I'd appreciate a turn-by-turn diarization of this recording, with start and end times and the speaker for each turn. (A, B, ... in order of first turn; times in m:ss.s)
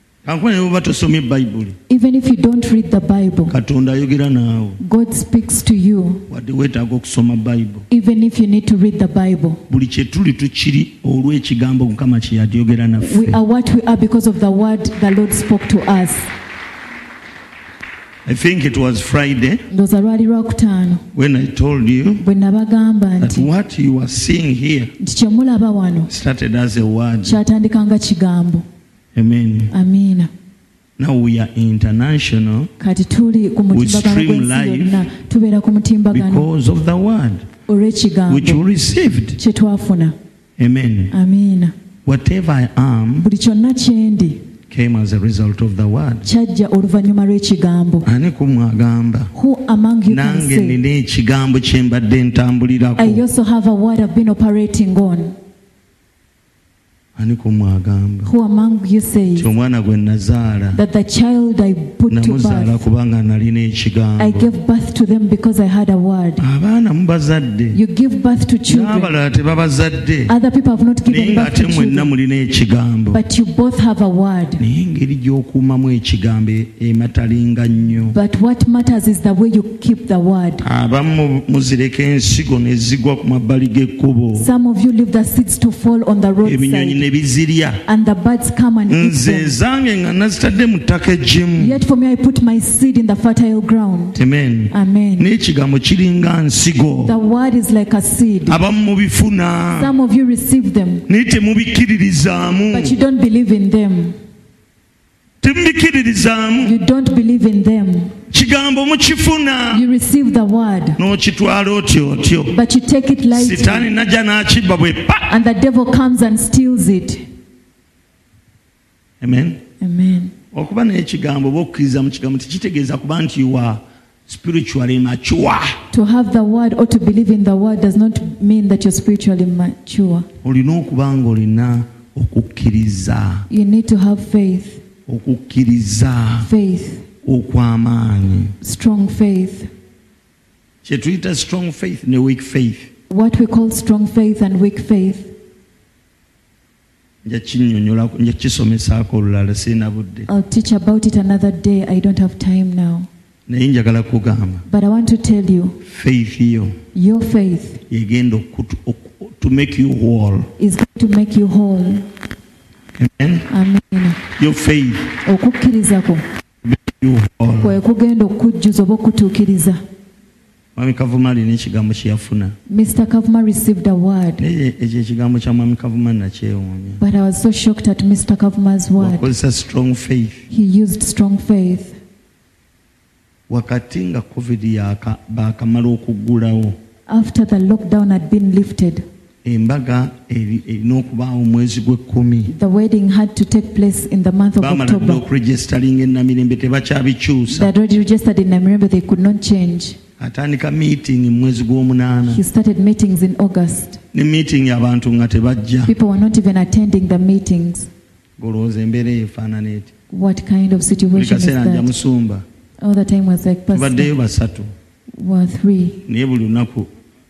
0:00.2-0:01.8 A
0:01.9-0:03.5 B
0:03.5-0:04.8 A
0:04.8-0:06.2 B
0:06.3-0:07.8 A
0:07.9-0:09.6 B
0:09.7-0:13.4 A
0:13.0-0:16.3 B
0:18.2-0:19.6 A
0:19.7-0:21.0 B
0:21.1-0:22.2 A
0:22.2-0:23.5 B
0:23.2-0:24.9 A
0:25.0-0:26.1 B
0:26.1-0:27.4 A
0:27.2-0:28.6 B
0:29.2-0:29.7 A
0:29.7-0:30.3 B
0:31.0-0:32.7 A
0:32.8-0:36.5 B
0:33.7-0:35.1 A
0:36.1-0:37.5 A
0:37.7-0:38.6 B
0:38.3-0:39.4 A
0:39.4-0:40.2 B
0:40.6-0:41.1 A
0:41.1-0:41.7 B
0:42.1-0:43.3 A
0:43.2-0:44.4 B
0:44.7-0:46.3 A
0:46.2-0:48.1 B
0:48.0-0:49.3 A
0:49.4-0:50.8 B
0:50.1-0:53.2 A
0:53.0-0:55.4 B
0:57.2-0:58.3 A
0:58.2-0:59.5 B
0:59.4-1:00.8 A
1:00.7-1:02.8 B
1:02.1-1:04.5 A
1:04.2-1:06.4 B
1:06.4-1:07.8 A
1:07.7-1:09.1 B
1:08.7-1:10.3 A
1:10.3-1:12.1 B
1:11.1-1:13.2 A
1:13.1-1:14.6 B
1:14.6-1:18.2 A
1:18.1-1:20.6 B
1:20.6-1:24.5 A
1:24.3-1:27.0 B
1:26.4-1:27.8 A
1:27.9-1:29.6 B
1:28.9-1:31.8 A
1:31.6-1:35.3 B
1:34.2-1:37.1 A
1:37.1-1:38.6 B
1:38.5-1:39.9 A
1:39.8-1:41.0 B
1:41.1-1:43.0 A
1:42.7-1:44.2 B
1:45.4-1:46.8 A
1:46.6-1:48.1 B
1:48.3-1:49.8 A
1:49.7-1:51.0 B
1:51.0-1:52.6 A
1:52.5-1:53.9 B
1:53.3-1:55.3 A
1:55.3-1:57.2 B
1:59.2-1:59.6 A
1:59.8-2:00.3 B
2:00.5-2:05.8 A
2:05.9-2:10.3 B
2:10.4-2:13.5 A
2:13.5-2:14.8 B
2:15.1-2:16.5 A
2:16.4-2:17.1 B
2:17.2-2:18.5 A
2:18.6-2:19.7 B
2:20.8-2:22.9 A
2:23.1-2:25.3 B
2:27.2-2:30.3 A
2:30.3-2:33.1 B
2:33.5-2:34.6 A
2:34.7-2:35.8 B
2:35.8-2:36.8 A
2:37.0-2:37.8 B
2:37.9-2:40.5 A
2:40.6-2:42.1 B
2:43.0-2:43.5 A
2:43.5-2:44.2 B
2:44.4-2:45.2 A
2:45.2-2:46.2 B
2:46.6-2:47.8 A
2:47.6-2:49.8 B
2:50.8-2:52.6 A
2:52.7-2:54.4 B
2:54.4-2:57.0 A
2:57.0-2:59.3 B
2:59.0-3:00.5 A
3:00.5-3:02.0 B
3:03.5-3:06.8 A
3:07.1-3:09.0 B
3:09.4-3:12.5 A
3:12.5-3:15.2 B
3:14.6-3:17.7 A
3:17.5-3:20.0 B
3:20.2-3:22.4 A
3:22.3-3:24.0 B
3:24.1-3:25.9 A
3:25.9-3:27.9 B
3:28.4-3:29.9 A
3:30.1-3:31.9 B
3:31.1-3:32.4 A
3:32.8-3:34.1 B
3:33.7-3:34.7 A
3:35.1-3:36.0 B
3:36.1-3:36.9 A